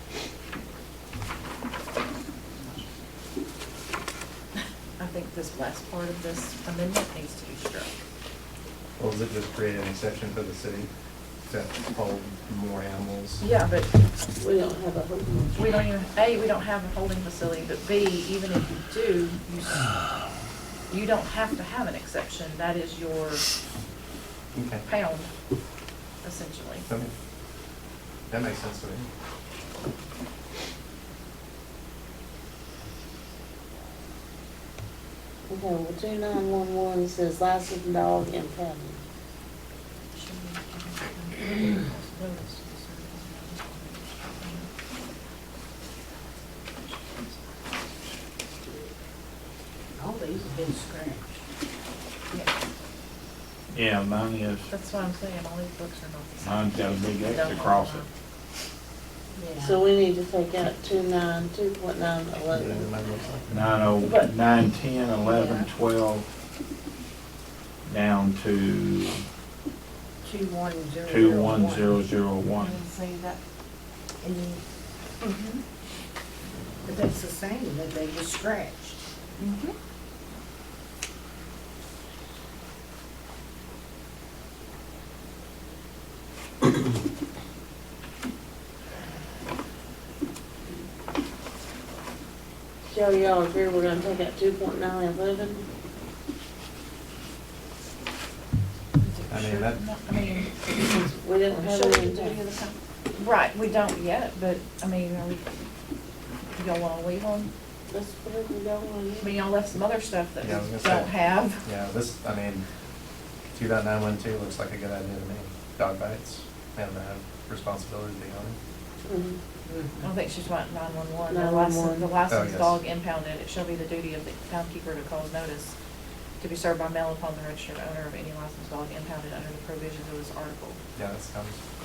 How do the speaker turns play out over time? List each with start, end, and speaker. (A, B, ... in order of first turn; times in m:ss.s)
0:02.5-0:02.9 A
0:05.0-0:07.9 A
0:09.0-0:10.9 B
0:11.5-0:13.4 B
0:13.4-0:13.9 A
0:14.4-0:15.6 C
0:15.6-0:20.0 A
0:20.9-0:23.4 A
0:24.6-0:24.8 B
0:24.9-0:25.3 A
0:26.2-0:26.9 A
0:28.3-0:29.1 B
0:35.5-0:39.0 C
0:40.2-0:44.7 A
0:46.7-0:48.2 A
0:50.0-0:51.5 D
0:53.7-0:54.7 E
0:54.7-0:58.1 A
0:56.4-0:58.0 E
0:59.3-0:59.8 D
0:59.6-1:02.9 C
1:02.5-1:03.7 B
1:03.5-1:06.3 E
1:04.0-1:04.3 A
1:05.2-1:05.7 D
1:07.8-1:09.2 E
1:10.2-1:12.0 D
1:11.1-1:12.8 E
1:12.6-1:13.4 A
1:14.2-1:14.6 D
1:15.3-1:15.6 A
1:16.8-1:19.0 D
1:19.4-1:19.8 A
1:32.9-1:35.7 C
1:39.0-1:40.7 A
1:39.3-1:39.8 B
1:40.7-1:42.4 C
1:41.6-1:45.5 A
1:46.6-1:47.5 A
1:47.9-1:49.4 C
1:49.2-1:51.6 A
1:50.4-1:52.6 B
1:53.5-1:58.6 B
1:59.1-1:59.4 C
1:59.7-2:00.1 D
2:00.0-2:05.8 A
2:01.3-2:02.1 C
2:02.3-2:02.8 B
2:06.4-2:10.8 A
2:11.0-2:11.6 B